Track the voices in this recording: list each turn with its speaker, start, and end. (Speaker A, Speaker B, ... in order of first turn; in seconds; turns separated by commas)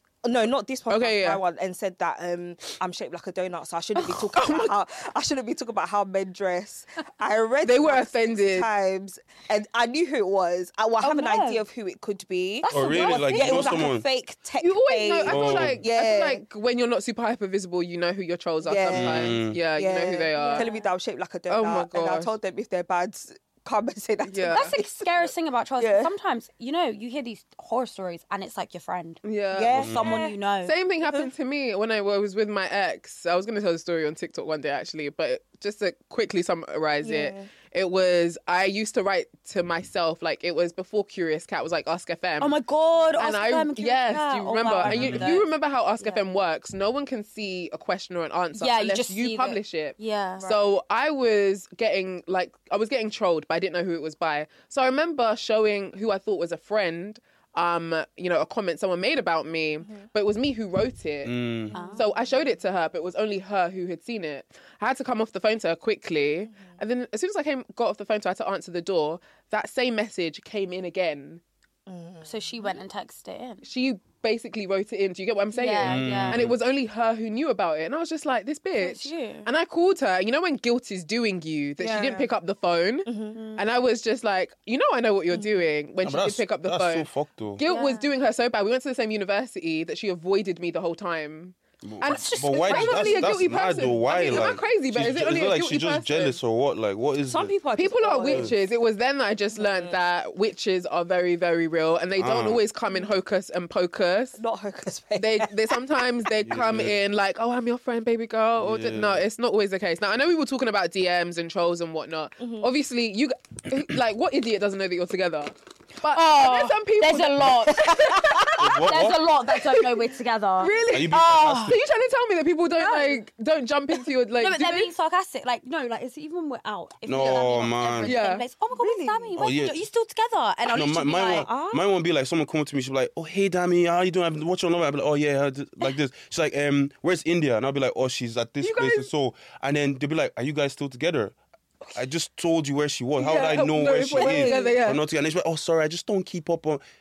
Speaker A: 0.2-16.4, Speaker B: 0.9-1.4, Speaker B: 4.1-4.7, Speaker B: 7.6-8.7, Speaker C: 11.0-11.6, Speaker C: 12.6-13.9, Speaker D: 12.7-14.0, Speaker B: 14.6-20.7, Speaker D: 15.2-15.8, Speaker A: 18.6-24.7, Speaker D: 18.9-19.6, Speaker C: 20.3-20.9, Speaker B: 21.5-22.3, Speaker B: 24.2-24.8, Speaker C: 24.5-29.2, Speaker A: 25.8-26.1, Speaker B: 29.2-30.0, Speaker A: 29.5-30.4, Speaker D: 29.7-30.2, Speaker C: 29.9-30.7, Speaker B: 30.6-42.5, Speaker A: 37.0-37.5, Speaker C: 42.4-45.5, Speaker B: 43.2-71.4, Speaker D: 44.8-45.2, Speaker C: 48.5-50.5, Speaker A: 50.4-50.7, Speaker D: 61.2-61.9, Speaker C: 61.7-62.0, Speaker A: 71.9-72.7, Speaker C: 72.2-73.7, Speaker B: 73.6-96.4, Speaker C: 75.5-76.5, Speaker D: 75.8-76.6, Speaker C: 78.8-79.5, Speaker A: 81.8-82.3, Speaker A: 83.0-83.4, Speaker C: 83.3-83.6, Speaker D: 86.0-87.6, Speaker C: 87.6-88.1, Speaker D: 91.8-97.7, Speaker C: 92.0-93.4, Speaker A: 94.2-94.6, Speaker A: 97.2-98.5, Speaker B: 97.7-104.4, Speaker D: 98.2-98.5, Speaker A: 99.5-100.0, Speaker D: 102.2-102.6, Speaker A: 104.3-105.8, Speaker B: 105.2-118.9, Speaker D: 106.4-107.0, Speaker D: 108.6-109.2, Speaker A: 112.4-112.7, Speaker C: 116.1-121.8, Speaker A: 117.9-118.4, Speaker D: 118.6-119.2, Speaker B: 120.6-124.9, Speaker D: 120.9-121.8, Speaker C: 122.8-123.2, Speaker C: 124.4-131.6, Speaker D: 127.0-128.2, Speaker B: 128.0-128.4, Speaker A: 128.7-129.3, Speaker D: 129.3-129.8, Speaker D: 130.7-141.3, Speaker A: 131.4-131.8, Speaker B: 138.6-139.1, Speaker D: 141.9-146.8, Speaker B: 143.2-145.0, Speaker A: 143.5-144.8